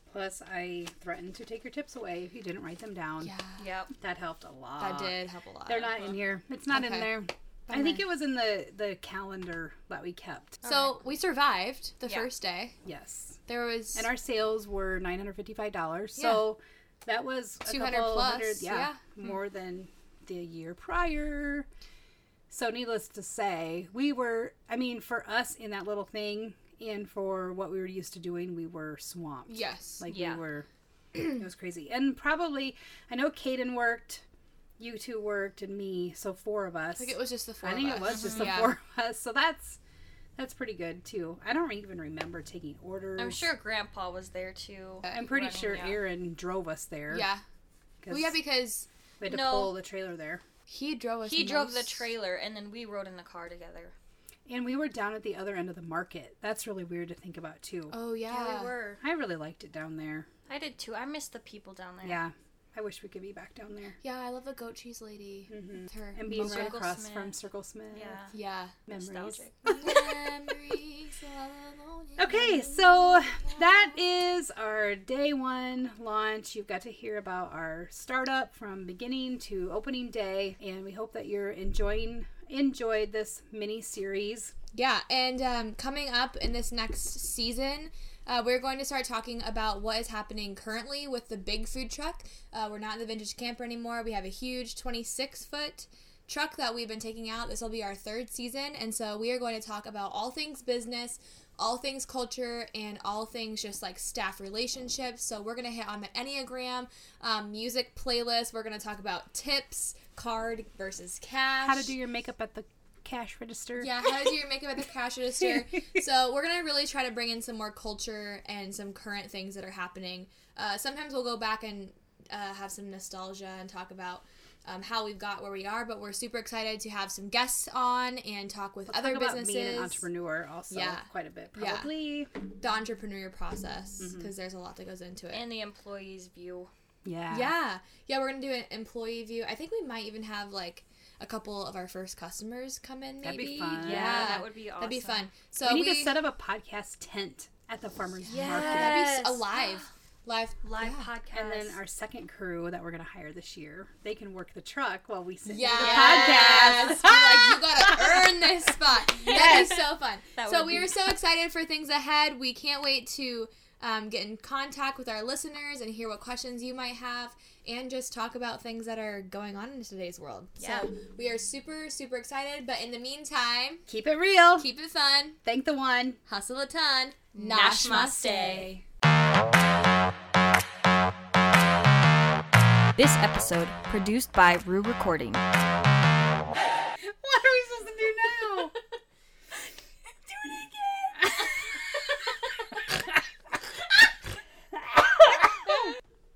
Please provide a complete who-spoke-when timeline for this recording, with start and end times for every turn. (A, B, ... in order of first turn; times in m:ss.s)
0:00.1-0:03.3 A
0:03.2-0:03.6 B
0:03.6-0:03.9 C
0:04.0-0:10.6 A
0:04.8-0:05.9 B
0:06.7-0:08.0 B
0:10.6-0:11.0 C
0:10.6-0:12.7 B
0:12.0-0:12.3 C
0:12.8-0:13.4 A
0:13.5-0:14.1 B
0:13.9-0:21.7 A
0:16.2-0:16.5 B
0:17.6-0:19.0 B
0:22.5-0:30.7 A
0:29.5-0:30.0 B
0:30.1-0:30.4 C
0:31.2-0:34.2 A
0:34.8-0:39.8 A
0:37.0-0:38.7 B
0:38.1-0:38.5 C
0:40.4-0:43.5 A
0:43.2-0:46.0 C
0:45.0-0:47.3 A
0:47.1-0:47.4 B
0:48.0-0:48.4 A
0:48.1-0:48.9 B
0:49.2-0:50.4 A
0:49.2-0:49.7 C
0:50.7-0:52.1 B
0:51.2-0:53.9 C
0:54.5-0:57.9 A
0:57.9-0:58.7 B
0:58.3-0:59.0 C
0:59.0-1:00.3 A
1:00.5-1:02.2 C
1:02.0-1:04.0 A
1:04.0-1:06.8 B
1:05.5-1:08.2 A
1:06.3-1:07.4 C
1:07.9-1:08.3 C
1:08.3-1:08.7 B
1:08.8-1:09.8 A
1:08.9-1:09.8 C
1:09.8-1:14.0 B
1:12.2-1:24.5 A
1:24.7-1:51.9 B
1:51.6-1:54.1 A
1:53.8-2:10.1 B
2:08.9-2:12.3 A
2:10.7-2:11.9 B
2:12.6-2:15.5 B
2:14.0-2:14.3 A
2:15.3-2:16.7 C
2:17.0-2:17.5 A
2:17.3-2:26.2 B
2:23.2-2:24.4 A
2:23.8-2:25.3 C
2:25.6-2:29.1 A
2:28.2-2:31.1 B
2:28.3-2:29.8 C
2:30.6-2:31.8 C
2:31.3-2:38.3 A
2:35.4-2:53.8 B
2:35.8-2:36.5 C
2:39.2-2:41.0 C
2:50.6-2:50.9 C
2:53.9-2:54.7 A
2:54.6-2:55.4 B
2:55.4-2:56.2 A
2:56.2-2:58.7 B
2:57.3-2:58.7 C
2:57.8-2:58.8 A
3:03.0-3:05.4 C
3:07.2-3:08.7 A
3:14.7-3:15.8 A